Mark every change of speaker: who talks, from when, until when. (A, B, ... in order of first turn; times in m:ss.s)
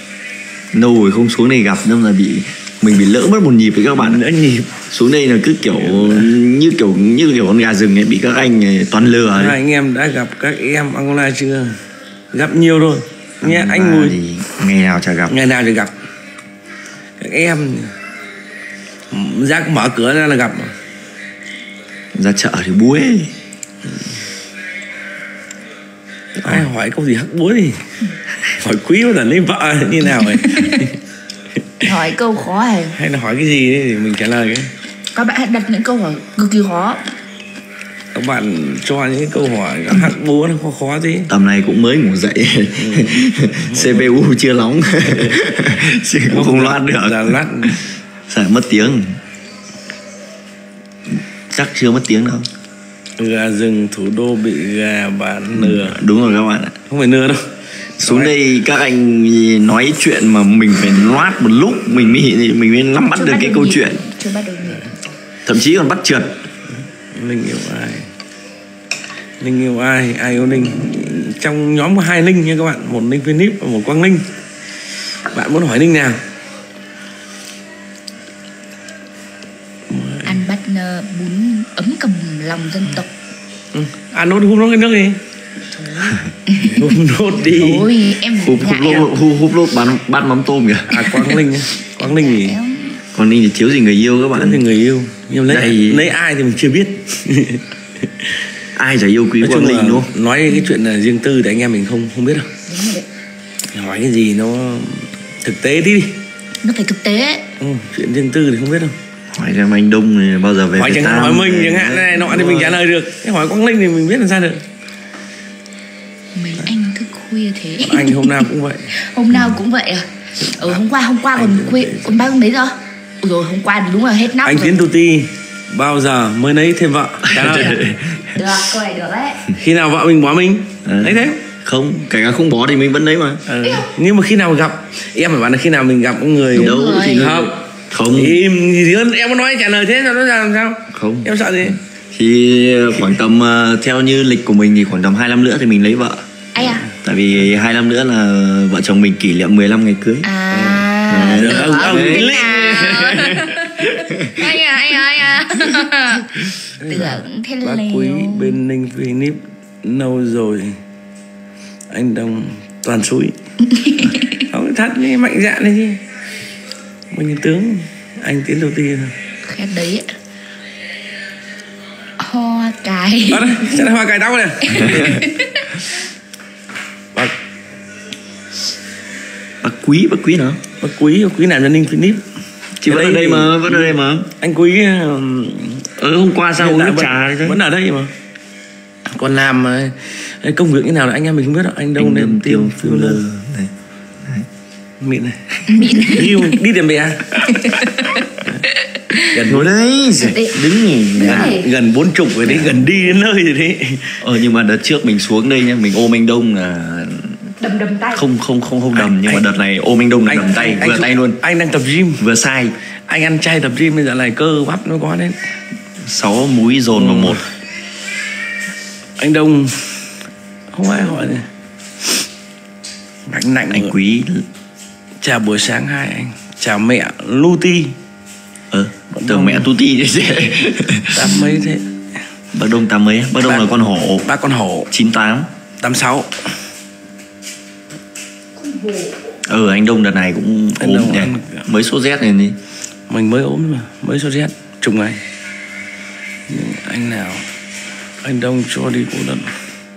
0:00.7-0:04.2 A
0:04.0-0:04.7 B
0:04.9-0:09.6 A
0:05.7-0:06.3 B
0:09.3-0:11.8 B
0:12.3-0:14.2 B
0:13.4-0:15.4 A
0:15.3-0:15.9 B
0:17.2-0:17.9 B
0:19.1-0:20.7 B
0:22.1-0:23.3 A
0:26.4-0:27.8 B
0:28.5-0:31.0 B
0:30.3-0:30.8 C
0:31.8-0:33.0 C
0:32.9-0:34.7 B
0:35.1-0:37.0 C
0:38.1-0:41.3 B
0:41.3-0:49.2 A
0:42.8-0:44.2 B
0:45.0-0:48.0 B
0:51.5-0:52.5 A
0:53.2-0:56.0 B
0:55.5-0:56.8 A
0:56.9-0:58.4 B
0:58.0-1:04.0 A
1:03.1-1:05.0 C
1:05.5-1:06.4 A
1:07.1-1:08.1 B
1:09.4-1:14.3 B
1:15.3-1:16.2 B
1:19.9-1:20.5 B
1:20.2-1:23.1 C
1:23.7-1:28.0 B
1:26.5-1:26.9 C
1:27.5-1:29.1 C
1:28.4-1:31.2 A
1:30.9-1:32.6 B
1:32.0-1:33.0 C
1:33.2-1:34.6 A
1:34.3-1:37.6 B
1:35.5-1:36.1 A
1:38.8-1:40.1 A
1:39.4-1:42.5 B
1:40.5-1:40.8 C
1:42.7-1:43.1 C
1:43.7-1:46.2 B
1:46.6-1:47.4 C
1:47.6-1:49.0 B
1:49.3-1:52.8 A
1:50.8-1:54.6 B
1:56.4-2:04.9 C
1:57.8-1:58.9 B
1:59.3-1:59.6 A
2:00.4-2:02.3 B
2:04.4-2:07.8 B
2:07.3-2:08.4 A
2:07.5-2:09.5 C
2:09.5-2:11.4 B
2:10.8-2:13.4 A
2:13.5-2:17.6 B
2:16.5-2:17.3 C
2:16.6-2:18.4 A
2:18.1-2:21.8 B
2:20.9-2:26.2 A
2:26.6-2:26.9 C
2:26.8-2:30.3 A
2:30.2-2:38.6 C
2:30.5-2:33.7 B
2:31.1-2:32.5 A
2:36.8-2:40.8 B
2:41.9-2:43.4 B
2:43.6-2:44.4 C
2:44.5-2:46.0 B
2:47.1-2:49.2 B
2:49.5-2:50.1 C
2:52.2-2:53.9 C
2:53.3-2:55.3 B
2:54.7-2:55.8 C
2:59.6-3:00.6 A
3:00.8-3:02.2 B
3:02.8-3:04.3 A
3:02.8-3:05.9 B
3:06.0-3:07.6 A
3:06.6-3:08.1 B
3:09.1-3:13.2 B
3:12.0-3:13.7 A
3:15.0-3:17.4 B
3:15.7-3:16.6 C
3:17.4-3:19.4 C
3:19.3-3:19.7 B
3:19.4-3:21.6 A
3:20.2-3:21.7 C
3:21.2-3:24.2 B
3:22.4-3:23.0 A
3:24.2-3:27.6 A
3:27.6-3:28.2 C
3:28.1-3:31.4 A
3:29.0-3:29.4 B
3:30.3-3:30.8 C
3:30.7-3:32.2 B
3:32.2-3:32.7 A
3:33.1-3:35.4 B
3:36.0-3:37.4 A
3:36.9-3:37.4 B
3:39.2-3:40.1 B
3:40.7-3:41.5 B
3:43.3-3:43.9 B
3:43.7-3:44.4 A
3:45.2-3:48.0 B
3:48.7-3:51.4 A
3:49.1-3:49.7 B
3:51.1-3:52.0 B
3:52.5-3:54.3 A
3:53.4-3:54.9 B
3:54.9-3:55.5 A
3:55.8-3:56.5 B
3:58.6-3:59.2 C
3:59.5-4:02.6 A
4:00.8-4:01.7 B
4:03.1-4:05.2 B
4:06.5-4:07.4 B
4:08.2-4:09.5 B